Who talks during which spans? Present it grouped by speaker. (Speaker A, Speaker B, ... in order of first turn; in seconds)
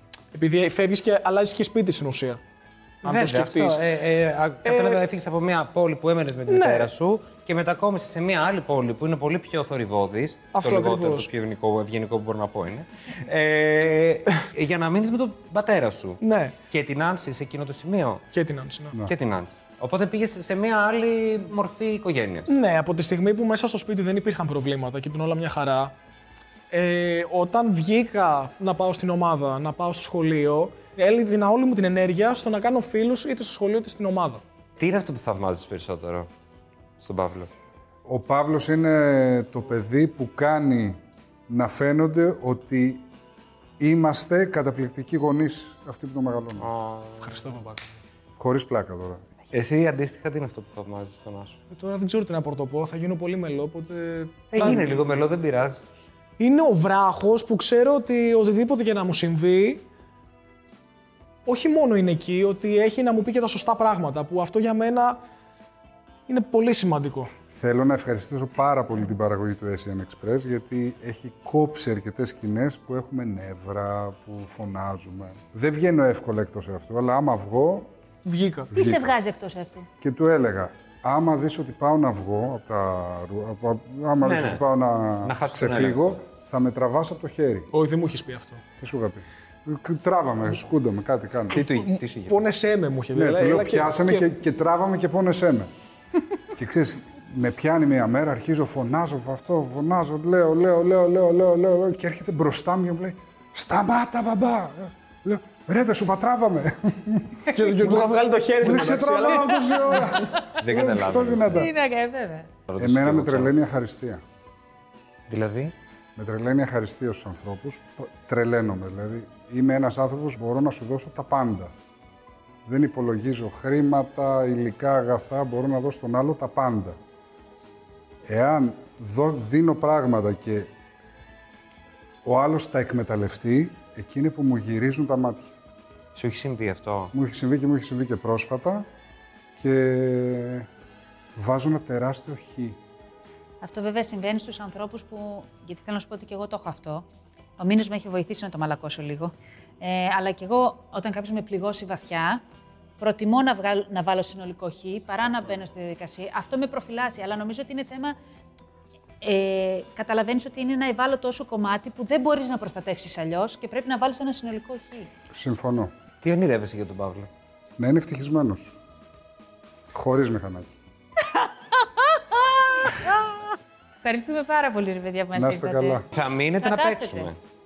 Speaker A: 0.3-2.4, 3.0-3.8, 4.6-5.0, 6.5-6.9, 10.5-11.3, 16.2-16.5, 18.3-18.9, 22.5-25.9, 26.7-34.4, 47.2-47.8, 51.7-55.0, 56.4-59.8, 61.5-65.2, 66.3-67.3, 78.2-78.7, 87.7-88.6, 91.6-94.3, 107.5-110.3
Speaker B: 3.0-18.2, 19.0-22.5, 34.8-36.3, 37.0-37.5, 46.6-47.4, 49.5-51.5, 54.5-55.8, 84.2-84.6, 85.2-86.1, 91.5-92.5, 110.6-111.7, 112.7-113.5, 115.3-115.7, 136.1-137.1, 166.2-167.3, 176.1-177.4
Speaker C: 38.0-43.0, 43.8-46.7, 48.4-49.2, 67.5-77.9, 78.7-79.2, 80.0-87.7, 88.8-91.6, 93.1-95.7, 96.5-111.7, 112.8-114.2, 116.2-121.7, 122.6-127.0, 128.2-130.7, 132.2-135.5, 137.1-138.8, 139.6-140.7, 141.3-142.8, 165.3-165.9, 167.8-168.8, 169.9-170.7, 175.3-176.0
Speaker D: 78.7-79.8, 111.5-112.5, 143.6-147.0, 147.6-152.4, 153.0-158.1, 159.2-165.1, 171.3-173.3, 174.0-176.1, 176.6-177.3